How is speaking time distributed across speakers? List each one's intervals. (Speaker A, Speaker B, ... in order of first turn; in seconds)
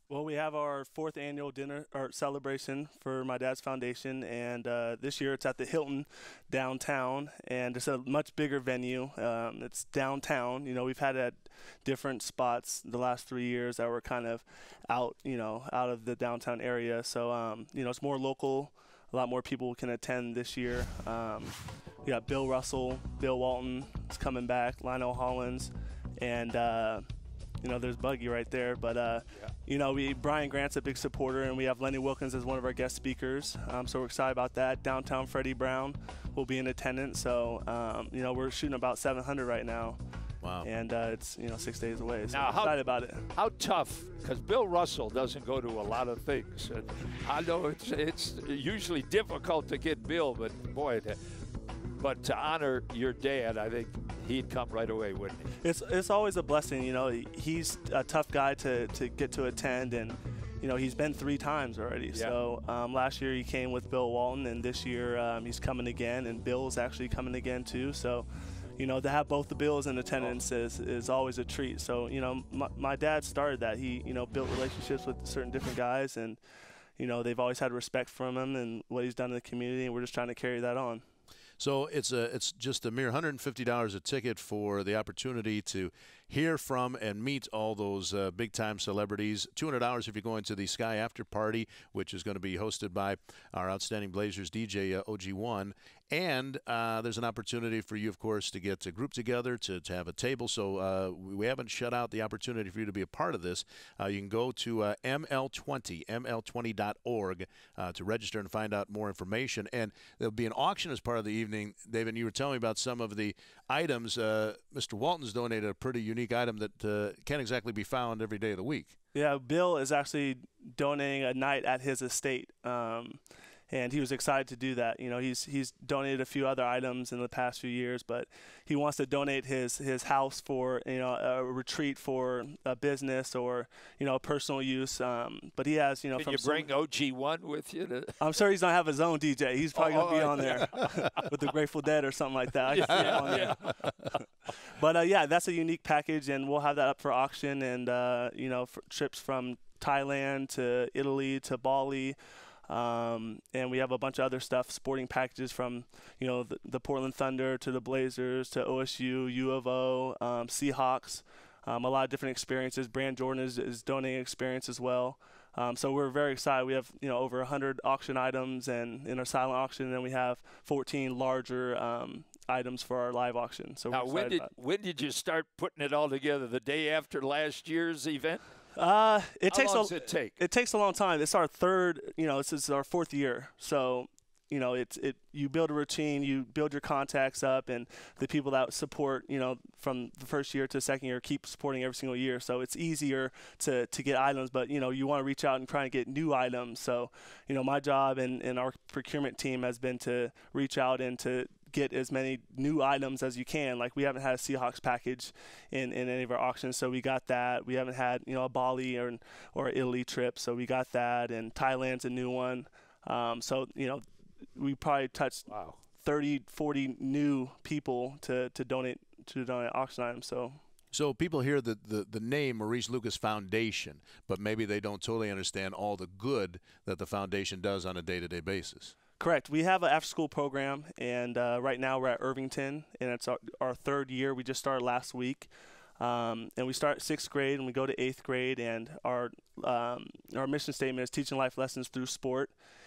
Speaker A: 0.1-27.0, 27.6-40.0, 40.6-43.3, 55.6-76.4, 77.0-81.0, 119.1-123.2, 123.7-136.7, 138.2-143.9, 144.6-152.2, 152.7-174.5, 178.8-214.0, 214.6-220.6, 229.2-242.5
Speaker B: 40.4-40.7, 81.6-119.0, 143.0-143.9, 220.9-228.9
Speaker C: 42.3-51.2, 52.0-55.5, 136.2-138.2, 139.8-140.9, 142.7-143.8, 173.9-178.4, 179.5-180.3, 215.5-215.8